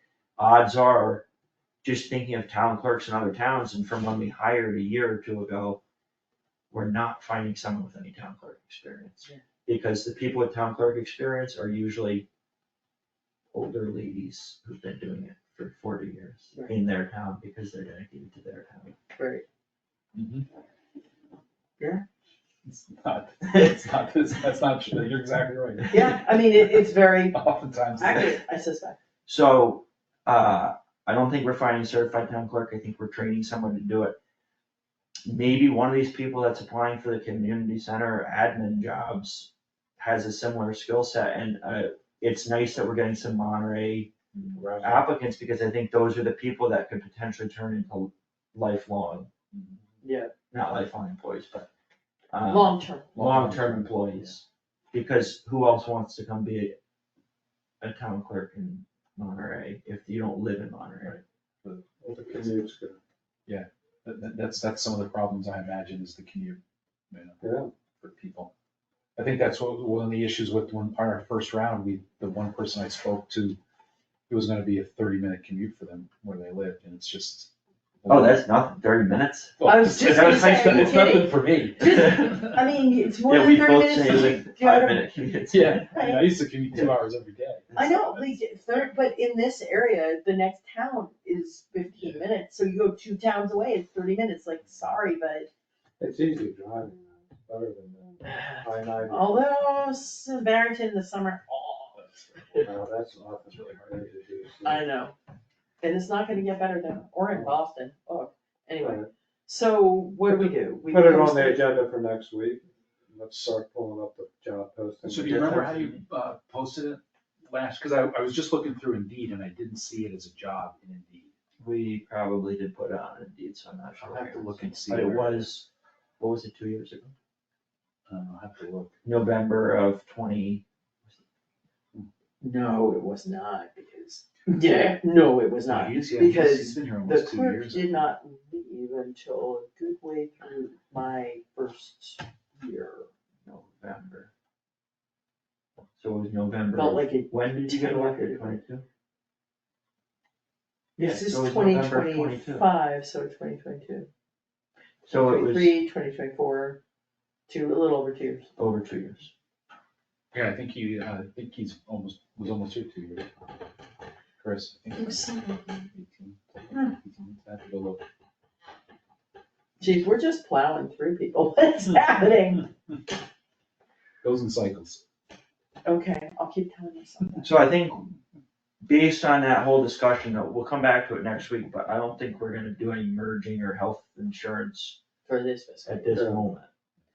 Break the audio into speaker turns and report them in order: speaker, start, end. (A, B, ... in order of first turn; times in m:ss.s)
0:00.4-0:01.2 A
0:01.8-0:05.8 A
0:06.7-0:12.3 A
0:13.5-0:18.9 A
0:19.2-0:19.4 B
0:20.1-0:20.4 C
0:21.8-0:22.0 B
0:22.6-0:26.6 C
0:25.9-0:27.4 B
0:27.3-0:28.4 C
0:28.0-0:29.0 B
0:29.2-0:34.2 A
0:35.3-0:44.1 A
0:44.5-0:45.1 D
0:44.8-0:49.3 A
0:49.5-0:49.8 C
0:50.0-0:50.3 B
0:50.5-0:51.7 A
0:52.3-0:56.8 A
0:52.5-0:53.2 B
0:53.2-0:54.2 C
0:57.8-1:01.2 A
1:01.2-1:02.4 C
1:02.0-1:03.0 D
1:03.4-1:07.4 C
1:07.4-1:07.7 D
1:08.0-1:08.5 C
1:09.2-1:13.6 C
1:14.3-1:17.5 C
1:18.0-1:18.4 C
1:18.1-1:21.0 A
1:19.6-1:22.6 C
1:19.6-1:25.1 B
1:23.2-1:26.0 A
1:25.5-1:28.9 C
1:25.9-1:26.3 B
1:27.7-1:28.2 A
1:27.7-1:35.5 B
1:32.0-1:32.2 C
1:36.0-1:39.5 D
1:38.2-1:42.0 B
1:42.0-1:42.7 C
1:42.6-1:44.8 D
1:44.6-1:45.1 B
1:45.8-1:51.6 B
1:47.3-1:47.6 D
1:48.8-1:49.1 D
1:50.3-1:55.6 D
1:55.0-2:01.3 C
1:55.2-1:56.0 A
2:01.6-2:05.6 A
2:04.0-2:05.5 C
2:06.2-2:07.1 A
2:08.1-2:08.9 C
2:09.0-2:10.6 A
2:12.4-2:23.1 B
2:15.7-2:18.1 C
2:23.4-2:24.3 A
2:26.0-2:28.8 A
2:26.7-2:28.6 B
2:31.0-2:32.7 A
2:31.0-2:34.1 B
2:35.0-2:35.7 A
2:35.1-2:36.8 B
2:37.5-2:38.5 B
2:38.6-2:39.3 A
2:40.3-2:43.3 C
2:44.4-2:48.0 C
2:45.0-2:45.8 B
2:49.8-2:52.7 B
2:54.2-2:55.0 C
2:55.8-2:57.6 B
2:57.4-2:58.0 A
2:58.8-3:05.0 A
3:05.2-3:06.2 B
3:05.8-3:06.7 A
3:06.1-3:06.4 D